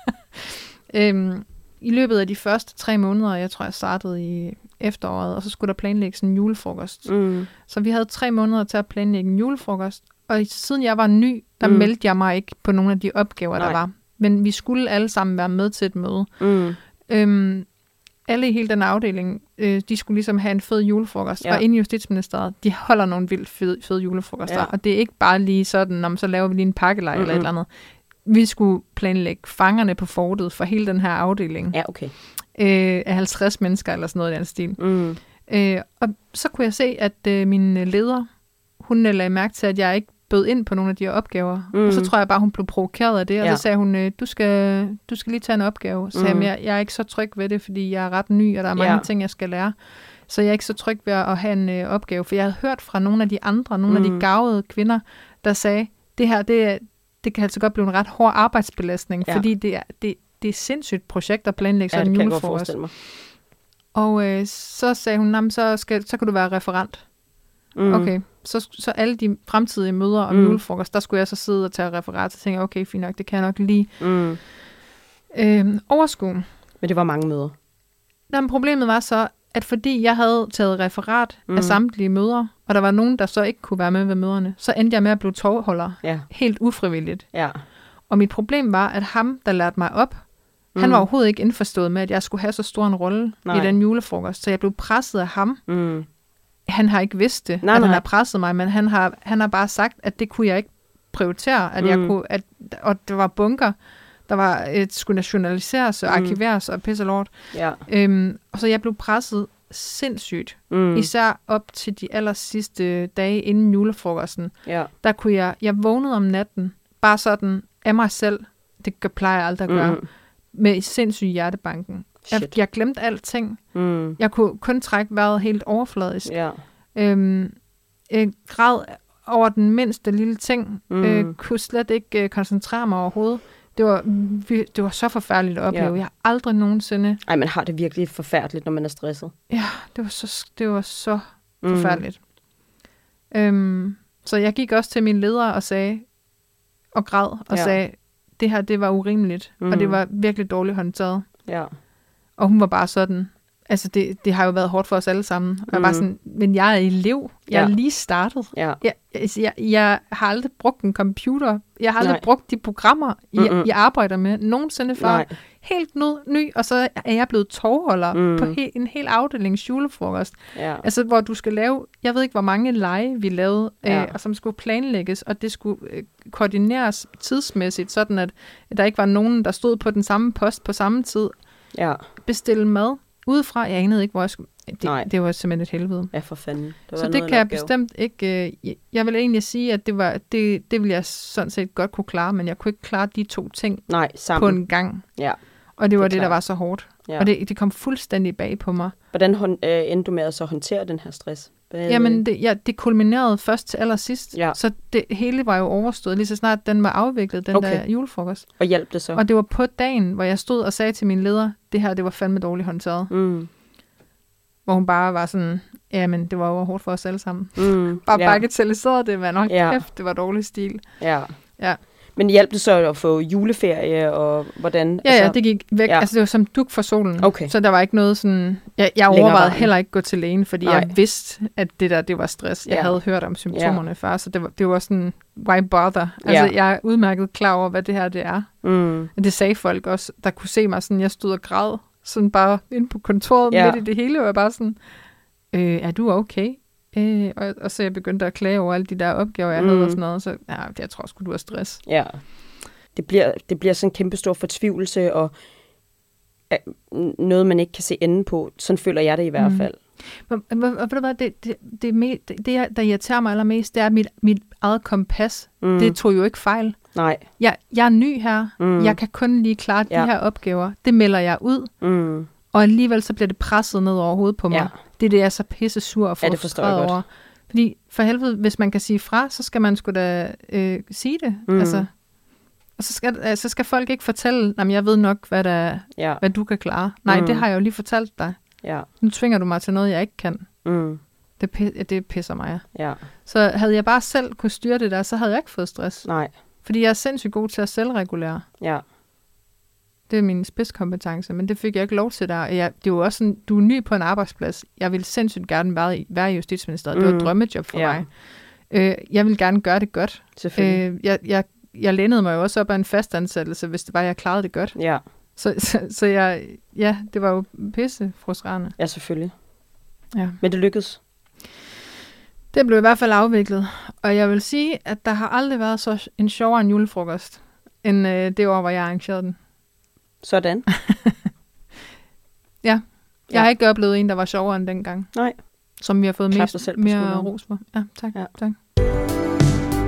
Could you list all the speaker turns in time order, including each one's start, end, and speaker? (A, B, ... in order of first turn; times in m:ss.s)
0:00.4-0:07.1 A
0:07.0-0:07.5 B
0:07.6-0:16.3 A
0:11.6-0:11.9 B
0:16.4-0:16.8 B
0:17.1-0:17.7 A
0:18.3-0:27.7 A
0:27.1-0:27.5 B
0:28.2-0:31.8 A
0:31.7-0:32.1 B
0:32.5-0:34.8 A
0:34.8-0:35.2 B
0:35.4-0:38.3 A
0:38.8-0:49.7 A
0:41.7-0:42.1 B
0:46.1-0:46.5 B
0:48.8-0:49.0 B
0:50.3-1:02.8 A
0:53.9-0:54.2 B
1:01.9-1:02.9 B
1:03.9-1:07.0 A
1:07.7-1:08.1 B
1:07.9-1:13.9 A
1:10.3-1:10.6 B
1:14.0-1:14.4 B
1:15.3-1:16.5 A
1:16.8-1:17.5 B
1:18.3-1:27.2 A
1:21.5-1:21.8 B
1:27.3-1:27.6 B
1:28.1-1:30.2 A
1:30.7-1:31.0 B
1:30.8-1:35.6 A
1:33.4-1:33.7 B
1:35.7-1:36.1 B
1:36.7-1:43.8 A
1:37.6-1:38.0 B
1:41.8-1:42.1 B
1:44.3-2:00.0 A
1:46.1-1:46.4 B
1:47.5-1:47.8 B
1:50.7-1:51.1 B
1:54.6-1:54.9 B
1:59.7-2:00.0 B
2:00.5-2:03.6 A
2:02.2-2:02.5 B
2:03.7-2:04.2 B
2:04.2-2:06.3 A
2:06.2-2:06.6 B
2:06.9-2:07.5 A
2:08.1-2:17.2 A
2:10.9-2:11.3 B
2:17.2-2:19.3 B
2:19.5-2:22.2 A
2:21.6-2:22.0 B
2:23.3-2:26.0 A
2:26.9-2:31.3 A
2:27.5-2:27.8 B
2:29.6-2:30.0 B
2:32.4-3:01.3 A
2:35.7-2:36.0 B
2:38.5-2:38.8 B
2:43.4-2:43.7 B
2:45.0-2:45.3 B
2:48.1-2:48.6 B
2:50.5-2:50.8 B
2:53.8-2:54.1 B
3:01.7-3:02.0 B
3:02.2-3:06.1 A
3:04.8-3:05.1 B
3:06.1-3:07.7 B
3:07.0-3:15.0 A
3:13.9-3:14.6 B
3:15.8-3:18.9 A
3:16.0-3:16.4 B
3:19.1-3:22.2 B
3:21.9-3:28.4 A
3:27.5-3:27.8 B
3:28.6-3:29.2 B
3:29.1-3:33.1 A
3:33.1-3:33.5 B
3:34.6-3:40.8 A
3:37.6-3:38.4 B
3:39.5-3:39.8 B
3:41.0-3:41.3 B
3:42.2-3:46.1 B
3:45.0-3:58.5 A
3:47.2-3:47.5 B
3:49.1-3:49.7 B
3:50.6-3:50.9 B
3:52.7-3:53.0 B
3:53.5-3:53.8 B
3:56.2-3:56.5 B
3:58.6-3:59.1 B
3:59.1-4:04.8 A
4:03.5-4:03.8 B
4:05.5-4:11.8 A
4:09.5-4:10.0 B
4:11.8-4:12.2 B
4:12.9-4:15.3 B
4:16.5-4:19.8 B
4:19.4-4:26.8 A
4:25.6-4:26.0 B
4:26.9-4:27.2 B
4:27.4-4:31.7 A
4:28.6-4:29.0 B
4:31.8-4:32.3 B
4:32.5-4:41.9 A
4:36.2-4:37.0 B
4:41.5-4:41.8 B
4:42.8-4:48.4 A
4:46.0-4:46.2 B
4:47.1-4:47.4 B
4:49.0-4:50.5 A
4:50.6-4:51.0 B
4:51.4-4:52.6 A
4:52.7-4:53.0 B
4:53.2-4:56.1 A
4:56.0-4:56.3 B
4:56.6-4:58.4 A
5:00.1-5:08.1 A
5:06.9-5:08.0 B
5:08.7-5:14.8 A
5:10.4-5:10.8 B
5:14.7-5:15.0 B
5:15.4-5:18.7 A
5:18.8-5:19.3 B
5:20.1-5:20.4 A
5:20.4-5:21.0 B
5:22.5-5:29.4 A
5:30.2-5:30.7 B
5:30.7-5:31.2 A
5:32.6-5:35.1 A
5:35.1-5:35.4 B
5:35.8-5:38.6 A
5:36.3-5:37.3 B